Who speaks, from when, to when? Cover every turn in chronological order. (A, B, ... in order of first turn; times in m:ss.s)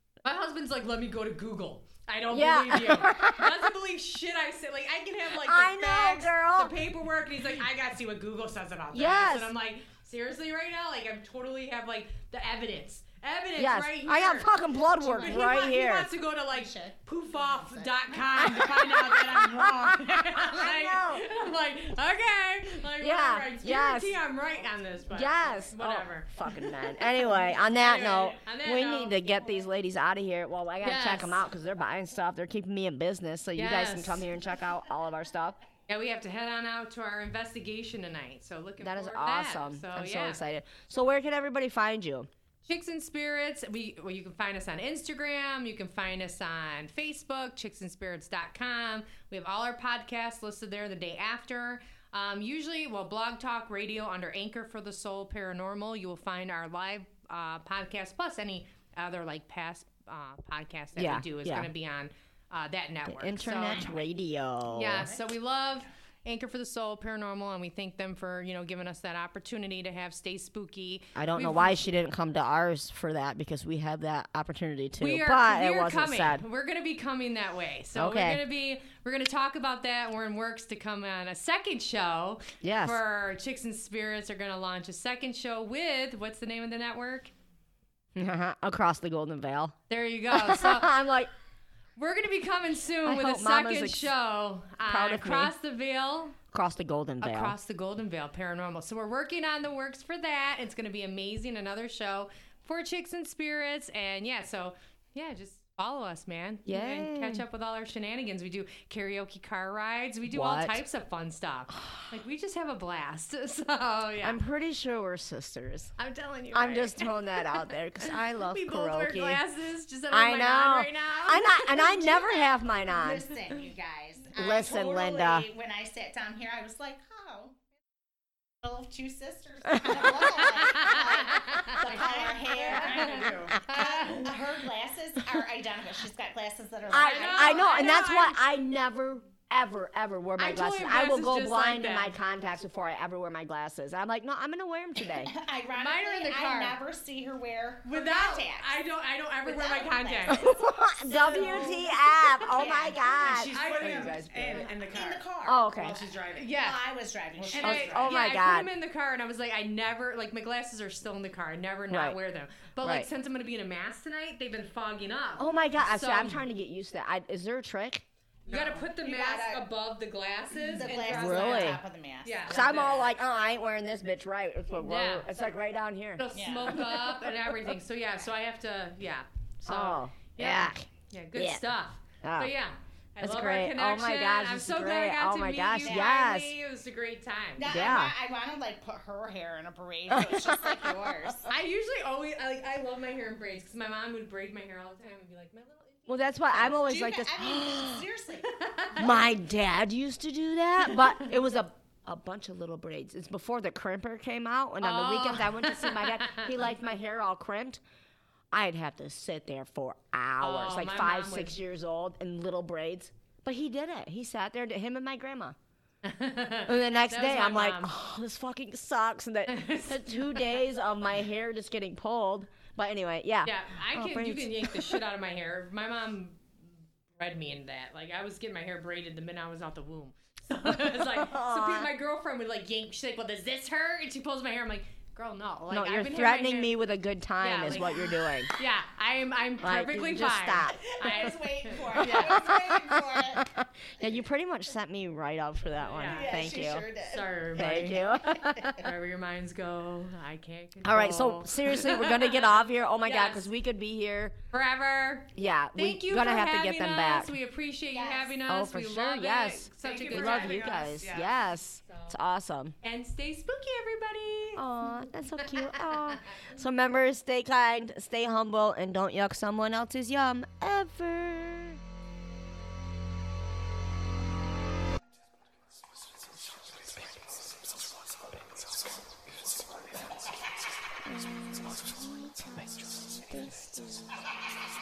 0:00.2-0:14.5 A
0:02.3-0:03.7 B
0:05.3-0:06.8 B
0:08.9-0:09.5 B
0:13.6-0:16.1 B
0:15.0-0:15.6 C
0:15.1-0:29.2 A
0:16.5-0:19.2 C
0:18.4-0:21.3 B
0:23.0-0:24.2 B
0:24.3-0:25.7 D
0:25.1-0:35.6 B
0:30.8-0:31.4 A
0:33.6-0:34.2 A
0:35.9-0:40.4 A
0:38.8-0:42.3 B
0:42.6-1:03.9 A
1:01.0-1:01.7 B
1:03.0-1:05.1 B
1:04.7-1:11.9 A
1:11.1-1:16.4 B
1:15.0-1:27.3 A
1:17.9-1:18.4 B
1:22.6-1:23.0 B
1:28.1-1:29.8 B
1:29.9-1:30.9 A
1:30.3-1:31.3 B
1:32.0-1:36.4 A
1:33.0-1:34.1 B
1:34.8-1:35.5 B
1:36.5-1:37.6 B
1:37.2-1:54.4 A
1:46.6-1:47.4 B
1:50.3-1:50.8 B
1:54.2-1:55.9 B
1:56.0-2:01.7 A
1:56.5-1:59.4 B
2:00.1-2:03.3 B
2:01.6-2:07.6 C
2:04.3-2:05.5 B
2:08.6-2:17.9 C
2:09.9-2:10.3 B
2:10.6-2:11.9 A
2:11.8-2:13.6 D
2:12.7-2:14.4 A
2:16.9-2:25.3 B
2:17.0-2:18.4 A
2:20.4-2:22.1 A
2:25.1-2:28.7 C
2:25.8-2:26.8 A
2:27.8-2:32.6 A
2:29.4-2:30.6 C
2:30.3-2:34.7 B
2:31.2-2:31.8 C
2:32.5-2:33.1 C
2:33.1-2:34.7 A
2:33.2-2:36.5 D
2:34.6-2:35.6 C
2:35.4-2:36.0 B
2:36.3-2:36.8 A
2:36.4-2:37.9 C
2:37.4-2:38.2 D
2:37.6-2:46.4 A
2:37.6-2:38.7 B
2:41.9-2:42.2 B
2:42.8-2:43.1 B
2:45.4-2:48.0 B
2:48.5-2:48.9 D
2:48.5-2:53.1 A
2:49.0-2:49.6 C
2:50.7-2:52.6 C
2:51.0-2:51.8 B
2:52.5-2:57.1 B
2:54.8-2:55.2 A
2:56.2-3:07.7 A
2:56.3-2:56.8 C
2:59.6-3:01.7 B
3:02.2-3:02.5 B
3:03.2-3:06.6 B
3:05.8-3:06.2 C
3:07.6-3:11.5 C
3:07.7-3:08.1 B
3:10.1-3:10.9 B
3:11.5-3:16.7 A
3:16.1-3:18.0 B
3:16.6-3:18.5 C
3:18.4-3:19.1 A
3:19.0-3:27.8 B
3:20.9-3:21.2 A
3:24.8-3:26.6 A
3:28.5-3:35.6 B
3:30.4-3:31.6 A
3:36.0-3:37.9 A
3:36.6-3:45.0 B
3:39.5-3:40.6 A
3:43.4-3:46.5 A
3:47.2-3:56.7 A
3:50.6-3:51.9 B
3:55.7-3:58.5 B
3:57.4-4:02.4 A
3:59.6-4:01.3 B
4:00.8-4:03.5 C
4:02.0-4:06.8 B
4:05.9-4:06.5 A
4:06.0-4:08.9 C
4:07.0-4:13.5 A
4:07.5-4:08.7 B
4:10.8-4:14.4 B
4:14.5-4:20.9 A
4:15.3-4:17.3 B
4:17.9-4:18.4 C
4:18.5-4:22.7 B
4:19.8-4:21.5 D
4:21.9-4:22.1 A
4:22.8-4:24.6 A
4:24.5-4:31.8 B
4:25.4-4:26.2 A
4:41.0-4:44.1 B